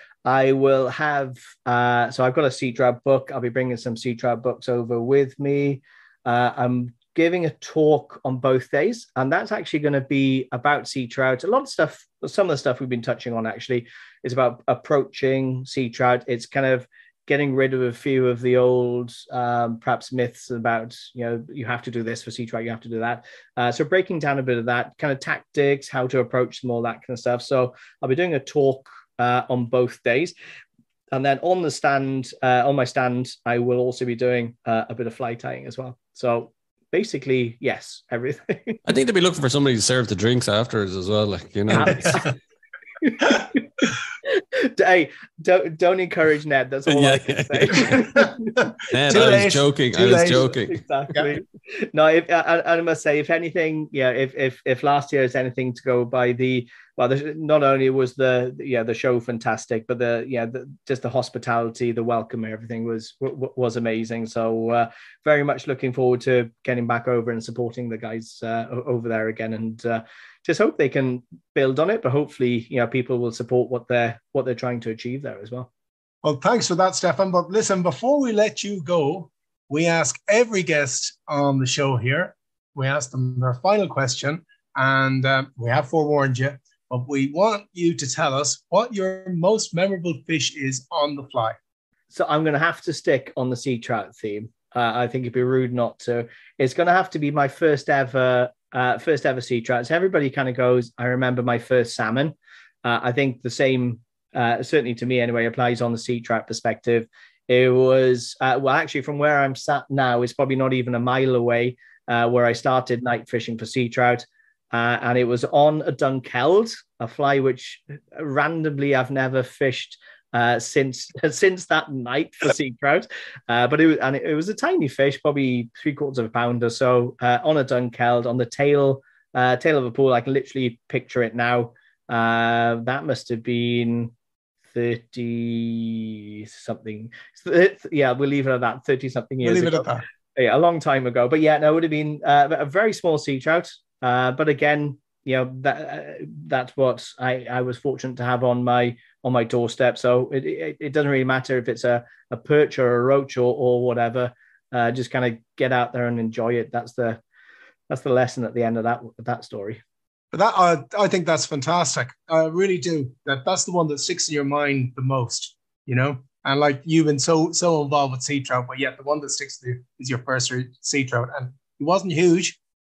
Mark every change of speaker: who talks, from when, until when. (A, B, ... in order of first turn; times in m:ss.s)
0:00.2-0:30.3 A
0:31.1-0:38.8 A
0:38.9-0:42.2 B
0:41.7-0:42.3 A
0:41.9-0:42.3 C
0:43.0-0:43.7 A
0:44.3-0:49.4 A
0:46.9-0:48.2 B
0:47.9-0:50.5 C
0:48.9-0:50.8 B
0:50.1-1:15.7 A
1:16.2-1:31.6 C
1:32.1-2:14.1 A
2:14.7-2:37.2 A
2:19.4-2:20.0 C
2:37.9-2:39.8 A
2:40.3-2:52.6 C